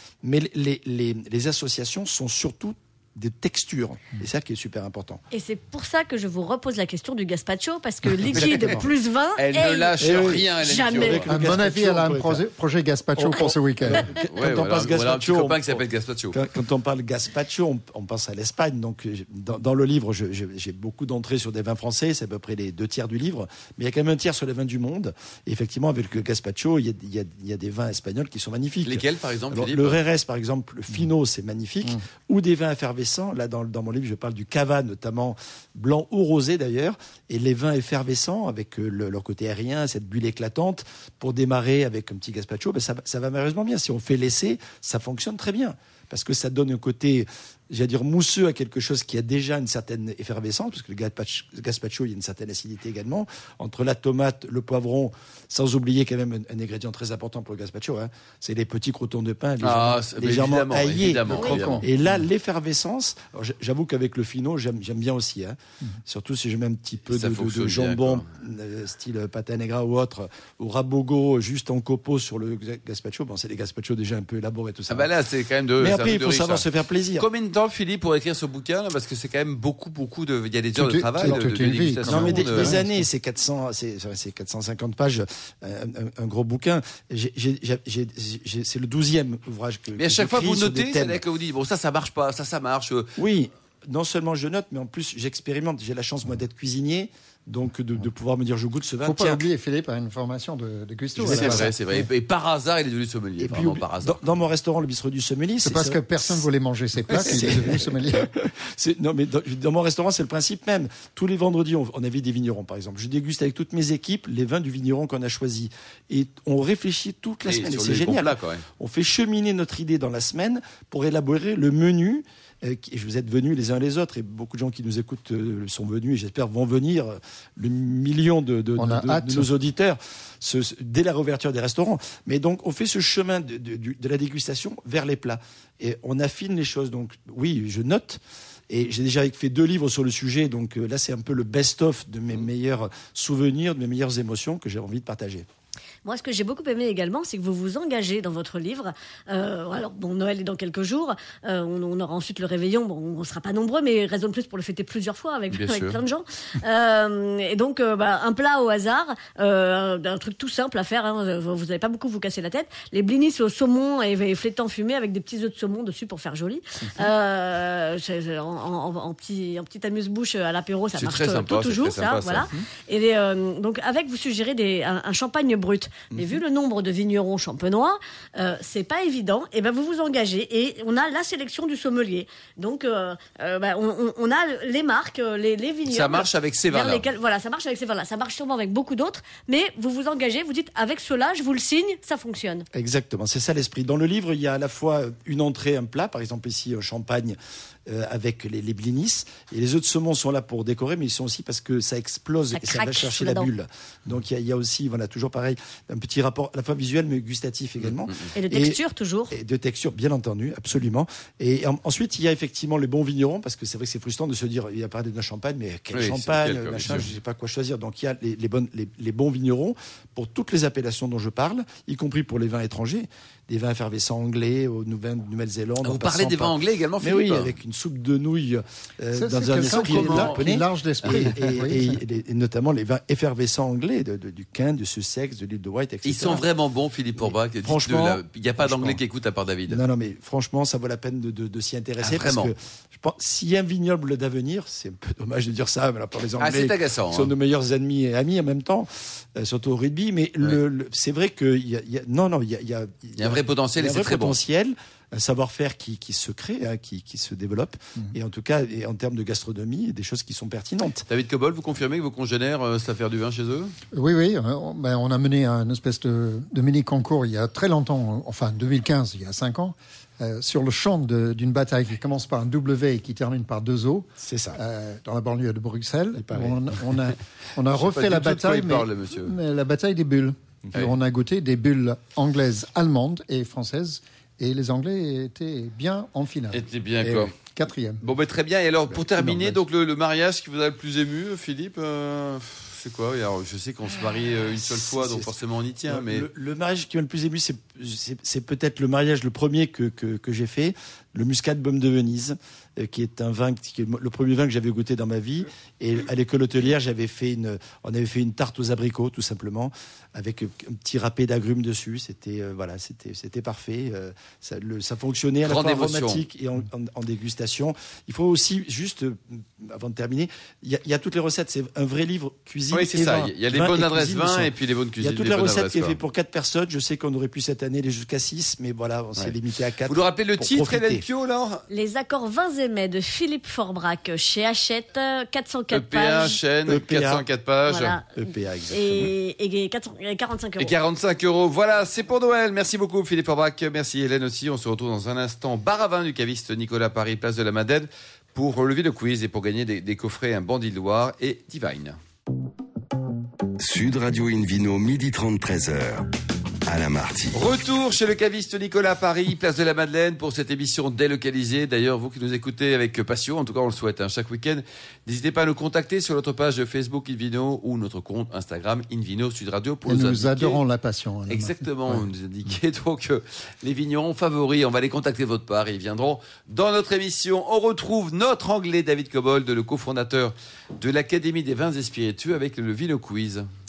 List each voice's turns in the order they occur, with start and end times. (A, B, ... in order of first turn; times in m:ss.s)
0:00.2-0:05.2 A
0:05.3-0:10.0 B
0:08.2-0:08.9 A
0:08.4-0:11.3 C
0:10.0-0:12.4 A
0:10.6-0:11.3 B
0:11.3-0:14.1 D
0:13.2-1:15.1 A
0:14.3-0:16.4 C
0:28.8-0:30.0 C
0:59.6-1:01.8 C
1:01.3-1:01.9 D
1:01.4-1:01.6 B
1:07.1-1:08.2 C
1:14.9-1:22.8 C
1:15.8-1:17.3 A
1:20.8-1:23.1 D
1:21.2-1:21.5 A
1:22.0-1:31.2 A
1:30.0-1:33.1 C
1:33.2-1:39.4 A
1:39.0-1:41.8 D
1:41.2-1:41.7 A
1:41.2-1:44.2 C
1:43.4-1:46.4 A
1:45.6-1:48.3 D
1:47.1-2:25.5 A
1:47.3-1:47.5 C
1:57.5-1:58.6 C
2:08.8-2:09.5 D
2:26.0-3:12.7 B
2:35.5-2:36.0 C
2:51.0-2:52.5 C
2:56.1-2:56.4 A
3:05.9-3:07.1 C
3:12.7-3:28.8 A
3:22.5-3:23.5 B
3:27.8-3:28.3 C
3:28.4-3:29.4 B
3:29.3-3:56.4 A
3:35.9-3:37.1 C
3:45.8-3:47.6 C
3:49.1-3:52.0 D
3:49.5-3:50.4 C
3:51.1-3:51.3 C
3:56.0-3:59.8 C
3:57.2-3:59.0 A
3:59.7-4:21.0 A
4:02.0-4:02.5 C
4:06.4-4:07.3 C
4:13.2-4:14.4 C
4:21.1-4:23.7 C
4:23.9-4:46.7 D
4:34.2-4:34.6 A
4:36.2-4:36.6 A
4:37.8-4:39.4 C
4:46.5-4:47.3 C
4:47.0-4:47.3 A
4:47.2-4:48.0 D
4:48.0-4:56.3 C
4:49.2-4:49.6 D
4:54.6-4:55.3 A
4:55.9-5:31.0 A
5:15.4-5:16.2 C
5:22.7-5:26.0 C
5:29.9-5:31.6 C
5:31.7-5:36.4 B
5:35.7-5:38.0 C
5:36.7-5:37.2 A
5:37.7-5:38.2 B
5:38.2-5:39.1 A
5:38.7-5:40.8 B
5:40.6-5:52.0 C
5:53.6-5:56.1 E
5:56.7-5:57.4 E
5:57.3-6:10.6 C
6:09.9-6:12.1 D
6:11.3-6:23.4 C